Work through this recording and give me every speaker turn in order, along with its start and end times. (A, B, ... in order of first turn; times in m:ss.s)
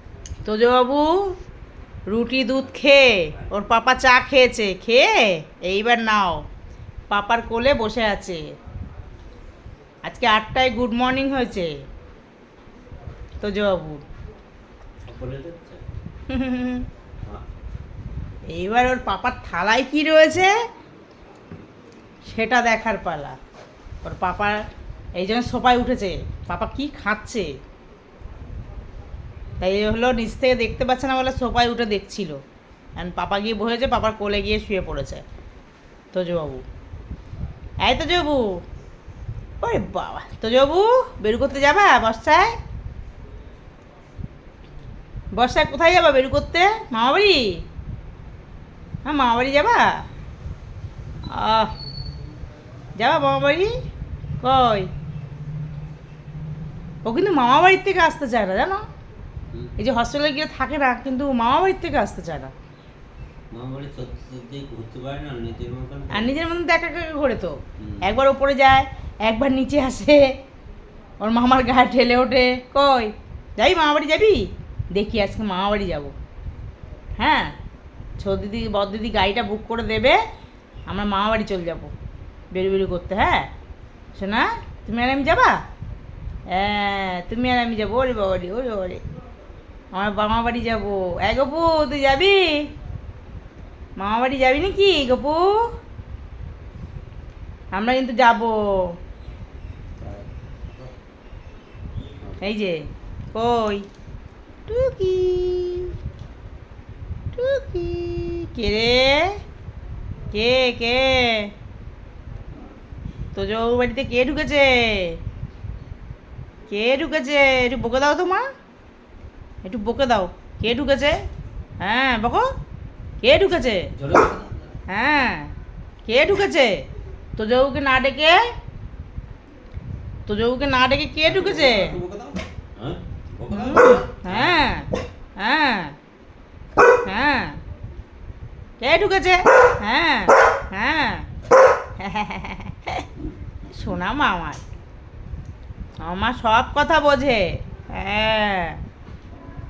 0:00.4-0:01.3 A
0:02.1-0:06.4 A
0:07.1-0:08.4 A
0:10.0-0:11.7 A
0:13.4-0:14.0 A
0:15.1-0:15.8 B
0:16.3-0:16.9 A
0:18.5-0:20.5 A
0:22.3-0:23.4 A
0:24.0-0:24.6 A
0:25.2-0:27.5 A
0:29.6-0:32.4 A
0:33.0-0:35.2 A
0:36.1-0:36.6 A
0:37.8-0:38.6 A
0:39.6-0:42.6 A
0:45.4-0:47.6 A
0:49.1-0:50.0 A
0:51.3-0:51.7 A
0:53.0-0:53.7 A
0:54.4-0:54.9 A
0:57.0-0:58.8 A
0:59.8-1:02.5 A
1:03.5-1:06.4 B
1:06.1-1:10.2 A
1:07.8-1:08.1 B
1:11.2-1:16.1 A
1:17.2-1:17.6 A
1:18.2-1:20.2 A
1:20.9-1:21.9 A
1:22.5-1:23.5 A
1:24.2-1:25.6 A
1:26.5-1:29.0 A
1:29.9-1:32.7 A
1:34.0-1:35.7 A
1:37.7-1:39.0 A
1:40.0-1:40.9 B
1:42.4-1:43.9 A
1:44.7-1:45.9 A
1:47.3-1:49.4 A
1:50.3-1:51.5 A
1:53.3-1:55.2 A
1:56.7-1:58.5 A
1:59.6-2:01.2 A
2:01.8-2:02.5 A
2:03.2-2:03.9 A
2:04.0-2:04.7 B
2:04.9-2:05.5 A
2:06.1-2:06.8 A
2:07.4-2:08.4 A
2:10.3-2:12.0 A
2:11.3-2:14.8 B
2:13.5-2:16.0 A
2:17.1-2:17.6 A
2:18.8-2:21.3 A
2:22.0-2:23.1 A
2:23.7-2:24.6 A
2:26.0-2:28.8 A